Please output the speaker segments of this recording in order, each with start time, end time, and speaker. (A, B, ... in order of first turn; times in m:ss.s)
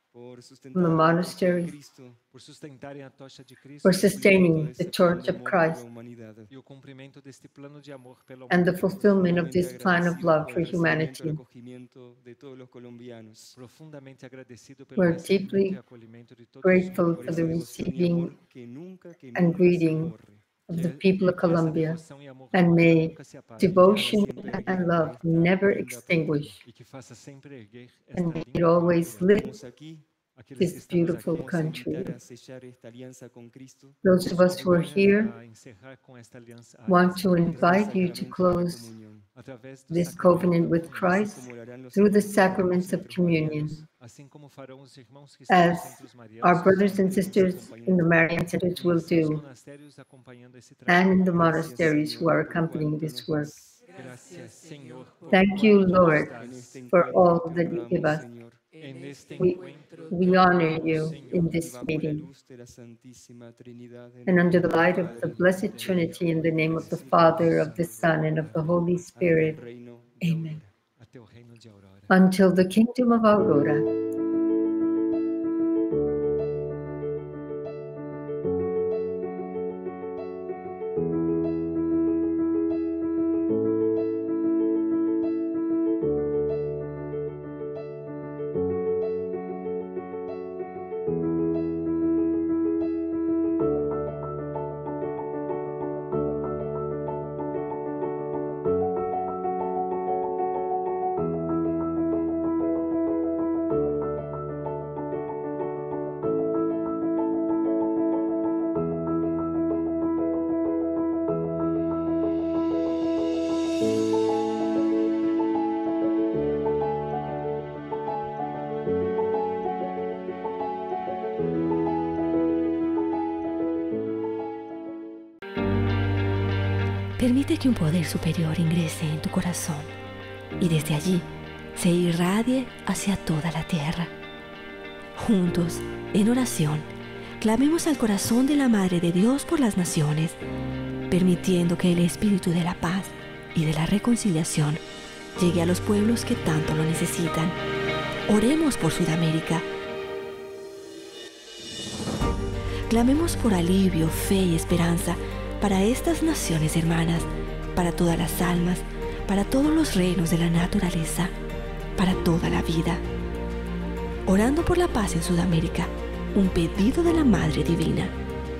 0:00.1-0:02.2 A
0:00.7-0:01.7 B
0:02.3-0:04.3 C
0:03.8-0:05.8 B
0:03.9-0:06.5 A
0:06.5-0:09.4 C
0:08.5-0:11.4 B
0:09.1-0:13.6 A
0:13.5-0:17.6 C
0:15.0-0:15.8 B
0:16.6-0:18.4 B
0:16.7-0:20.6 A
0:19.4-0:20.2 B
0:20.7-0:22.0 B
0:20.7-0:25.2 C
0:22.5-0:26.6 B
0:23.8-0:26.6 A
0:26.6-0:29.3 C
0:28.2-0:29.6 B
0:29.2-0:30.1 A
0:30.4-0:31.5 C
0:30.6-0:32.1 B
0:30.8-0:34.0 A
0:34.0-0:35.3 B
0:34.3-0:37.6 C
0:36.9-0:38.9 B
0:37.4-0:39.3 A
0:39.4-0:41.2 C
0:39.9-0:43.8 B
0:41.0-0:43.8 A
0:43.9-0:47.8 C
0:45.5-0:49.4 B
0:47.1-0:48.1 A
0:48.5-0:51.2 C
0:50.9-0:53.5 B
0:51.3-0:53.9 A
0:53.9-0:56.8 C
0:55.3-0:56.3 B
0:55.4-0:58.6 A
0:56.9-0:58.3 B
0:58.8-1:01.5 C
0:59.4-1:02.3 B
1:01.0-1:10.7 A
1:04.3-1:09.6 B
1:04.8-1:07.7 C
1:10.2-1:10.6 B
1:11.0-1:12.2 C
1:12.1-1:13.9 B
2:07.2-2:09.9 D
2:10.6-2:14.1 D
2:15.2-2:16.9 D
2:17.4-2:20.4 D
2:21.1-2:24.8 D
2:25.4-2:27.6 D
2:28.3-2:29.7 D
2:32.9-2:41.3 D
2:42.0-2:43.0 D
2:44.3-2:48.2 D